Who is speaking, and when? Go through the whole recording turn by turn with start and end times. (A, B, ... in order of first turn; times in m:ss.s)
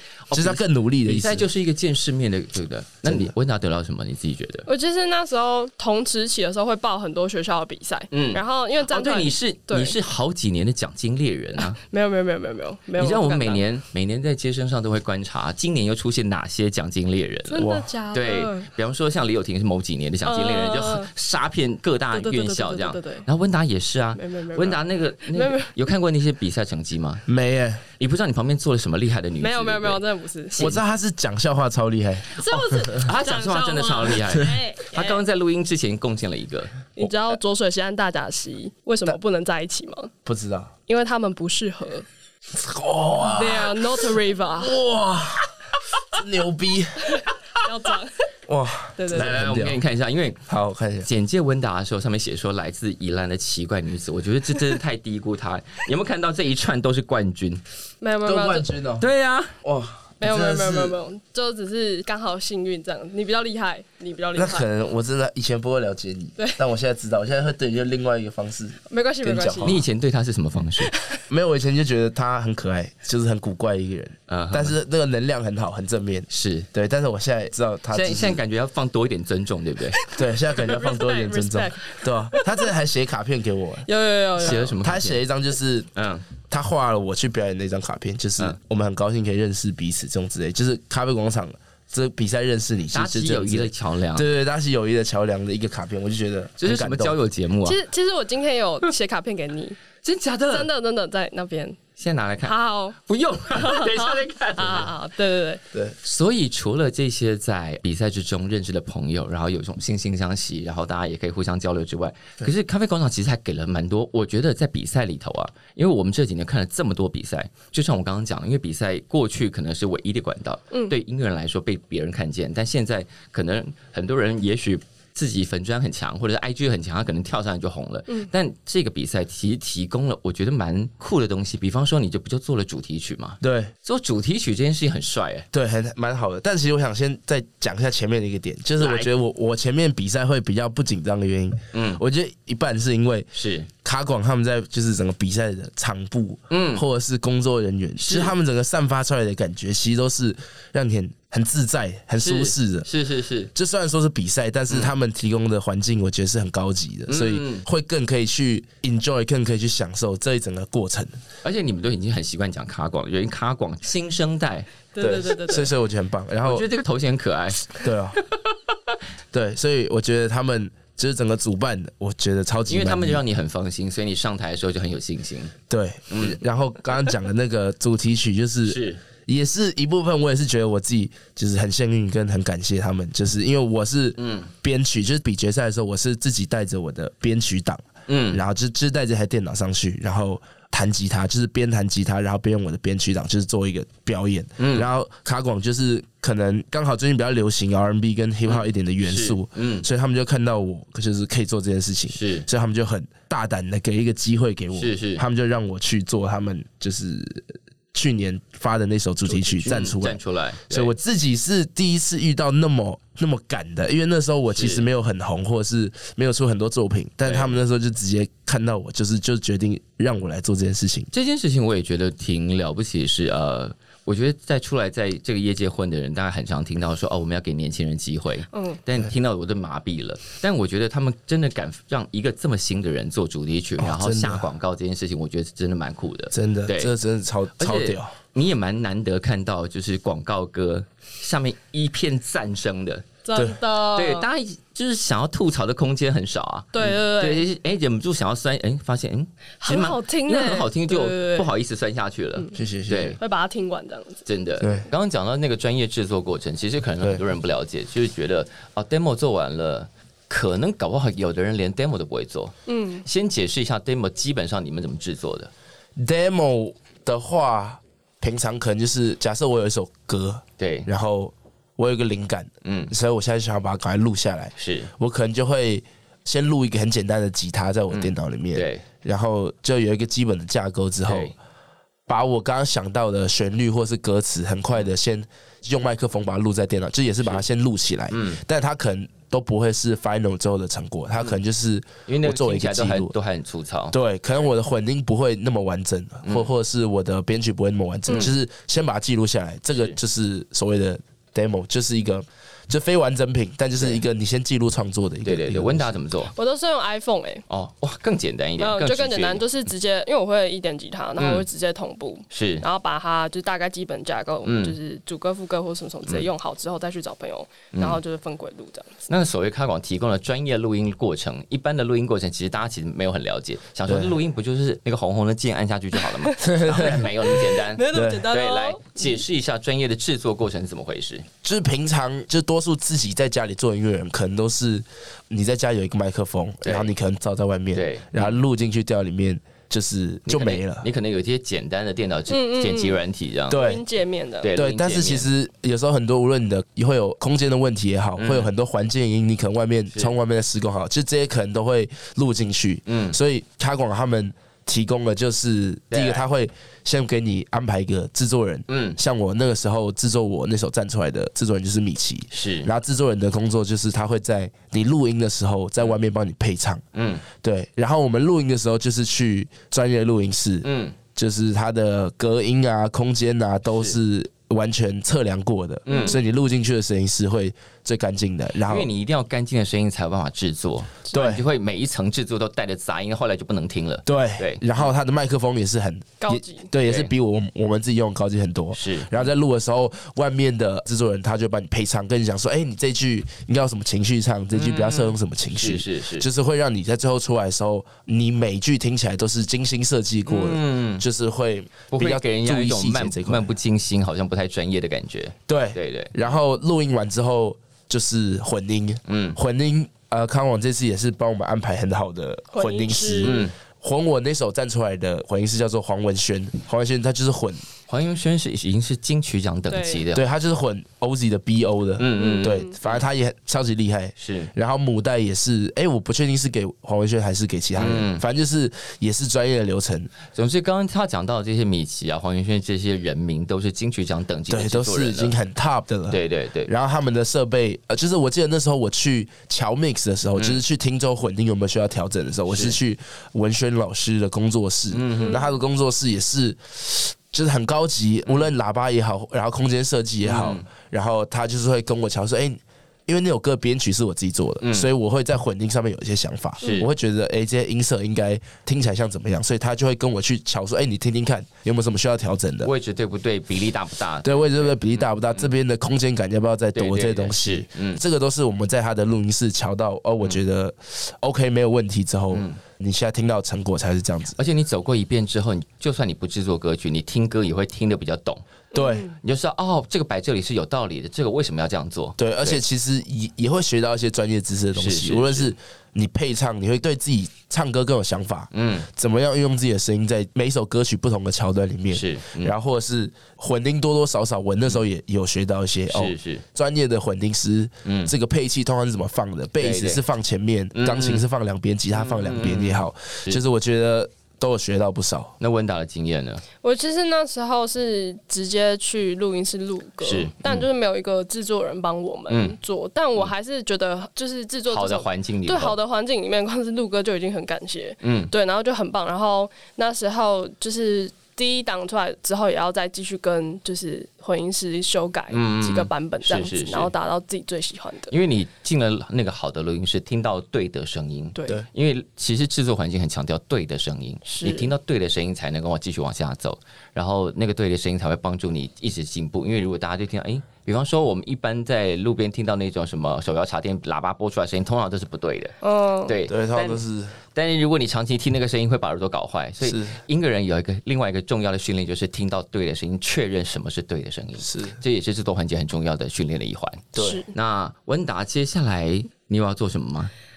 0:00.3-0:04.6 A
0:00.3-0:01.5 B
0:03.0-0:03.3 B
0:04.6-0:09.9 C
0:08.1-0:11.8 A
0:11.8-0:13.6 C
0:13.0-0:27.2 A
0:17.5-0:18.7 C
0:17.6-0:17.9 B
0:20.2-0:21.1 C
0:22.1-0:23.3 C
0:24.1-0:24.8 C
0:25.3-0:25.7 C
0:27.3-0:27.8 B
0:28.0-0:30.0 A
0:29.4-0:30.7 C
0:30.5-0:30.8 A
0:30.6-0:32.4 B
0:32.4-0:35.2 C
0:32.5-0:36.8 A
0:36.9-0:40.1 C
0:40.2-0:40.7 B
0:40.9-0:42.0 C
0:42.5-0:47.2 B
0:43.2-0:44.8 C
0:47.1-0:48.1 C
0:48.5-0:49.8 B
0:49.0-0:49.4 C
0:49.1-0:50.4 A
0:50.5-0:51.1 B
0:51.0-0:57.6 A
0:58.0-0:58.7 C
0:58.2-0:59.0 B
0:59.0-0:59.5 A
0:59.6-1:01.0 B
1:00.2-1:04.7 C
1:04.4-1:09.8 B
1:08.9-1:09.8 C
1:09.6-1:10.9 A
1:11.3-1:18.4 B
1:14.3-1:14.8 A
1:16.3-1:16.7 A
1:17.9-1:20.0 A
1:20.1-1:23.9 B
1:20.6-1:22.7 C
1:23.9-1:24.7 C
1:24.4-1:25.2 A
1:24.4-1:25.9 B
1:26.0-1:26.2 A
1:26.5-1:37.2 B
1:32.9-1:34.3 A
1:36.6-1:37.8 A
1:37.6-1:39.8 C
1:40.0-1:40.7 A
1:40.5-1:41.8 C
1:42.0-1:44.9 A
1:42.4-1:43.0 C
1:43.5-1:45.6 C
1:46.0-2:15.5 A
2:13.4-2:13.7 B
2:15.5-2:23.3 B
2:18.8-2:19.1 A
2:21.7-2:22.0 A
2:23.4-2:23.7 A
2:23.8-2:32.9 B
2:26.5-2:26.8 A
2:28.0-2:28.4 A
2:32.2-2:33.5 A
2:33.5-2:41.1 B
2:37.1-2:37.6 A
2:41.4-2:44.7 A
2:44.9-2:45.7 C
2:45.0-2:46.6 B
2:46.4-2:47.8 A
2:47.8-2:48.2 B
2:49.3-2:53.2 B
2:52.7-2:55.5 A
2:55.7-3:41.1 B
2:56.1-2:56.4 A
2:58.6-2:59.0 A
3:04.2-3:04.5 A
3:08.1-3:08.4 A
3:14.6-3:14.9 A
3:18.4-3:19.9 A
3:22.1-3:22.4 A
3:24.8-3:25.2 A
3:29.3-3:30.9 A
3:34.5-3:34.9 A
3:37.2-3:37.6 A
3:41.1-3:56.9 A
3:48.5-3:48.8 C
3:53.8-3:54.5 B
3:56.3-3:58.1 B
3:57.6-4:03.1 A
4:03.2-4:04.3 C
4:03.9-4:13.2 A
4:06.7-4:07.4 C
4:09.6-4:11.5 C
4:12.5-4:13.2 B
4:13.2-4:14.2 C
4:14.2-4:25.5 A
4:14.6-4:14.9 B
4:22.7-4:23.0 C
4:26.0-4:41.3 B
4:30.6-4:30.9 A
4:32.6-4:32.9 A
4:34.6-4:34.9 A
4:37.9-4:38.9 A
4:41.0-4:41.3 A
4:42.1-4:53.1 B
4:48.1-4:48.4 A
4:52.1-4:53.9 A
4:53.9-5:06.0 B
5:05.2-5:06.3 A
5:06.4-5:07.4 C
5:07.5-5:09.4 A
5:08.6-5:19.0 C
5:11.2-5:11.4 A
5:12.3-5:12.6 A
5:14.4-5:14.8 A
5:17.7-5:18.0 A
5:19.1-5:31.3 A
5:23.9-5:24.2 B
5:26.0-5:29.2 C
5:26.4-5:27.1 B
5:27.9-5:28.3 B
5:31.4-5:40.8 B
5:36.6-5:36.9 A
5:37.7-5:38.4 A
5:40.2-5:43.6 A
5:42.3-5:43.0 C
5:43.5-5:43.8 B
5:43.5-5:44.5 C
5:44.4-5:45.3 A
5:44.5-6:18.9 B
5:48.2-5:48.5 A
5:52.9-5:53.2 A
5:55.9-5:56.2 A
5:58.7-5:59.0 A
6:02.3-6:02.7 A
6:06.9-6:07.2 A
6:10.6-6:11.0 A
6:13.7-6:14.0 A
6:15.9-6:16.2 A
6:15.9-6:16.2 C
6:18.6-6:24.8 A
6:21.1-6:21.4 B
6:24.1-6:43.5 B
6:26.2-6:26.7 C
6:26.8-6:27.1 A
6:28.7-6:29.2 A
6:34.5-6:36.3 A
6:40.2-6:41.0 A
6:41.9-6:46.1 A
6:45.5-6:57.6 B
6:49.1-6:49.4 A
6:52.5-6:53.4 C
6:53.2-6:53.5 A
6:57.9-7:00.2 A
6:59.7-7:00.0 C
7:00.1-7:10.1 B
7:02.0-7:03.0 A
7:02.1-7:02.7 C
7:04.2-7:04.5 A
7:07.8-7:08.2 A
7:10.3-7:15.3 A
7:14.5-7:42.7 B
7:16.1-7:16.7 A
7:22.5-7:22.8 A
7:24.9-7:25.4 A
7:30.2-7:30.6 A
7:34.6-7:34.9 A
7:36.6-7:36.9 A
7:42.6-7:45.5 A
7:44.2-7:54.4 B
7:46.7-7:48.0 A
7:52.3-7:52.6 A
7:54.4-7:58.6 A
7:58.7-7:59.1 B
7:58.7-7:59.1 C
7:59.2-8:02.6 A
8:02.2-8:25.3 B
8:04.7-8:05.6 A
8:08.5-8:08.9 A
8:11.9-8:12.5 A
8:15.9-8:16.4 A
8:17.8-8:18.1 A
8:19.6-8:20.0 A
8:20.7-8:21.2 A
8:21.9-8:23.4 A
8:25.4-8:26.4 A
8:26.6-8:48.1 C
8:30.0-8:30.6 A
8:32.3-8:32.6 A
8:34.7-8:35.8 A
8:38.0-8:38.3 A
8:45.3-8:46.9 A
8:48.1-9:05.6 A
8:51.4-8:51.6 C
8:54.2-8:54.7 C
9:05.6-9:06.1 C
9:06.1-9:06.8 A
9:06.3-9:07.1 B
9:07.4-9:20.1 A
9:09.6-9:10.0 B
9:14.4-9:14.8 B
9:16.9-9:17.2 B
9:17.0-9:17.3 C